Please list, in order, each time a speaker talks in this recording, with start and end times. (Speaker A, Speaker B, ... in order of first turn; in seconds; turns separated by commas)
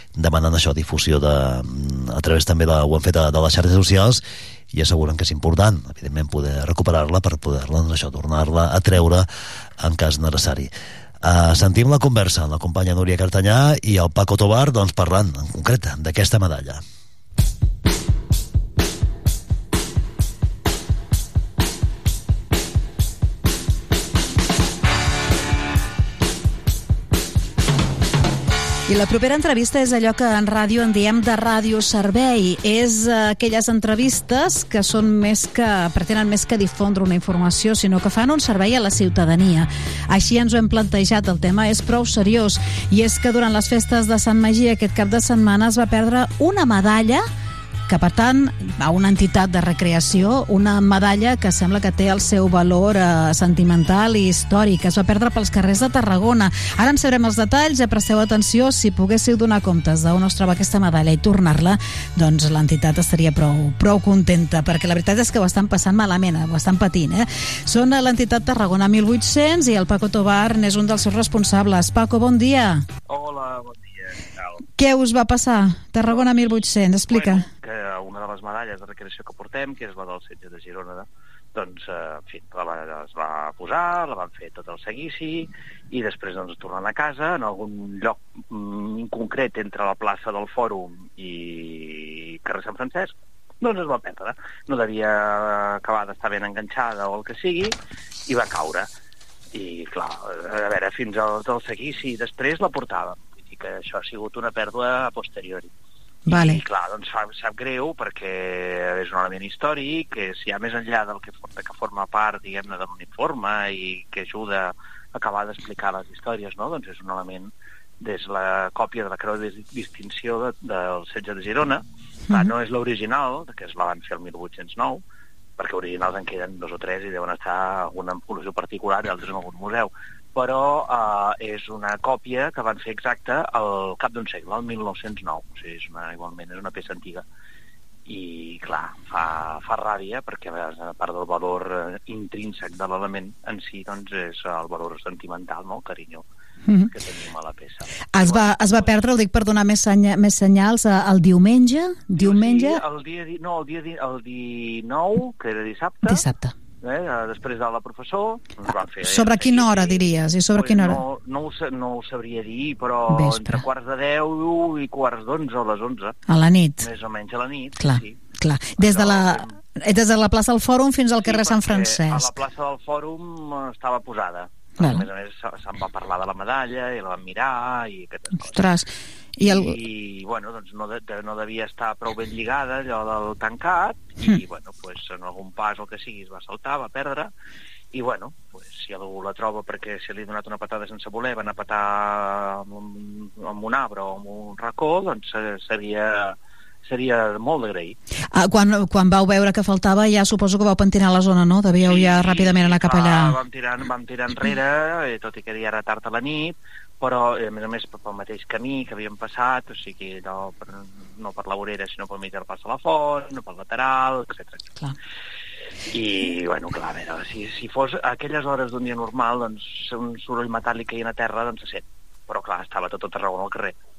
Speaker A: 0.2-9.3, Speaker A: 9.8-10.7, Speaker A: 11.2-16.8, Speaker B: 28.9-47.2, Speaker B: 47.9-72.8, Speaker C: 73.1-74.6, Speaker B: 74.8-77.5, Speaker C: 76.1-98.9, Speaker C: 99.5-105.7, Speaker B: 106.3-106.6, Speaker C: 106.3-125.0, Speaker C: 125.6-137.2, Speaker C: 138.1-146.2, Speaker B: 146.7-146.9, Speaker C: 146.9-149.0, Speaker B: 148.1-152.8, Speaker C: 152.2-156.2, Speaker B: 156.1-156.5, Speaker C: 156.8-166.2, Speaker B: 159.0-161.0, Speaker B: 163.1-163.6, Speaker B: 166.3-166.9, Speaker C: 166.8-168.3, Speaker B: 167.8-172.3, Speaker C: 168.8-169.6, Speaker C: 171.2-178.7, Speaker B: 174.8-175.1, Speaker B: 178.4-179.8, Speaker C: 179.4-187.3, Speaker C: 187.9-198.0, Speaker B: 198.3-203.4, Speaker C: 201.8-214.6, Speaker C: 215.9-223.8